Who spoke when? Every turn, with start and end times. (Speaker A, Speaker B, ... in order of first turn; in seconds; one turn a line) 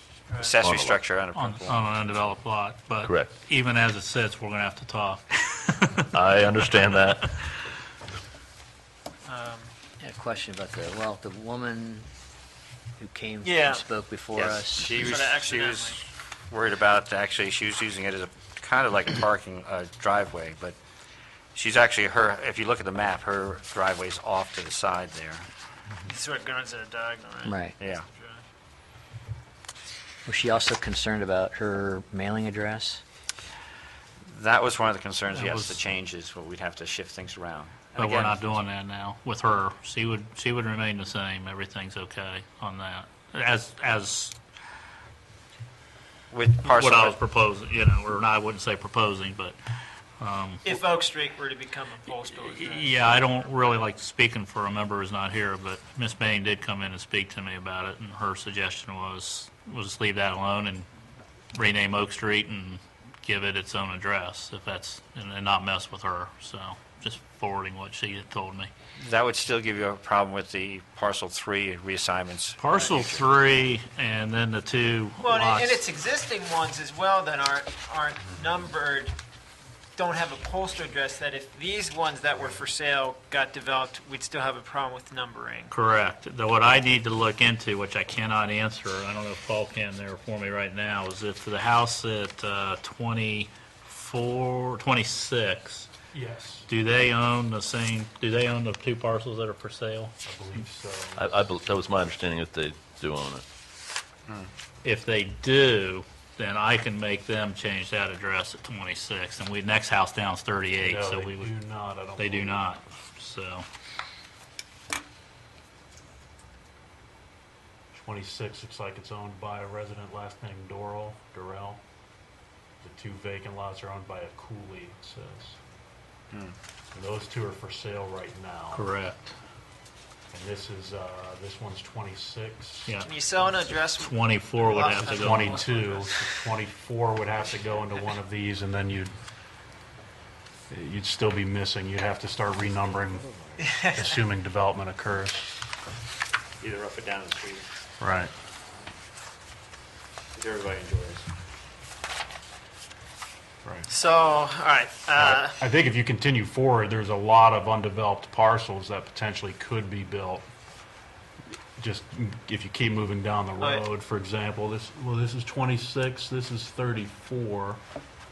Speaker A: 0.3-0.6
Speaker B: 0.4-1.8
Speaker C: 0.6-1.0
Speaker D: 1.3-6.0
Speaker C: 3.0-3.3
Speaker C: 6.1-7.3
Speaker A: 9.3-9.7
Speaker E: 10.0-12.1
Speaker E: 13.0-14.9
Speaker A: 13.4-13.8
Speaker B: 14.3-20.8
Speaker A: 14.9-16.0
Speaker B: 21.6-25.5
Speaker A: 26.1-28.4
Speaker E: 27.4-27.8
Speaker B: 27.8-28.1
Speaker E: 30.2-33.0
Speaker B: 34.3-38.4
Speaker D: 35.3-35.8
Speaker D: 38.0-44.4
Speaker B: 46.3-47.2
Speaker D: 46.6-49.6
Speaker D: 50.2-50.8
Speaker A: 50.6-53.1
Speaker D: 52.2-60.9
Speaker D: 61.5-68.7
Speaker B: 69.0-73.4
Speaker D: 72.6-75.8
Speaker A: 75.2-79.2
Speaker A: 80.0-85.7
Speaker D: 85.7-95.9
Speaker F: 96.1-96.7
Speaker D: 96.7-100.1
Speaker F: 100.2-101.3
Speaker C: 101.2-103.4
Speaker D: 104.8-111.5
Speaker F: 110.8-112.8
Speaker D: 112.2-113.7
Speaker F: 117.9-121.8
Speaker F: 122.8-125.6
Speaker F: 126.9-128.9
Speaker D: 128.7-129.4
Speaker F: 130.3-132.9
Speaker D: 132.9-133.1
Speaker A: 133.0-136.2
Speaker D: 133.9-135.7
Speaker F: 135.2-139.1
Speaker B: 137.3-137.8
Speaker F: 140.7-143.3
Speaker B: 142.8-143.8
Speaker A: 143.6-144.2
Speaker F: 143.9-145.6
Speaker B: 146.6-147.7
Speaker F: 148.0-148.3
Speaker B: 150.3-151.3
Speaker F: 153.6-153.9
Speaker A: 153.9-155.6
Speaker F: 155.2-160.5
Speaker F: 161.5-167.8
Speaker A: 163.6-163.9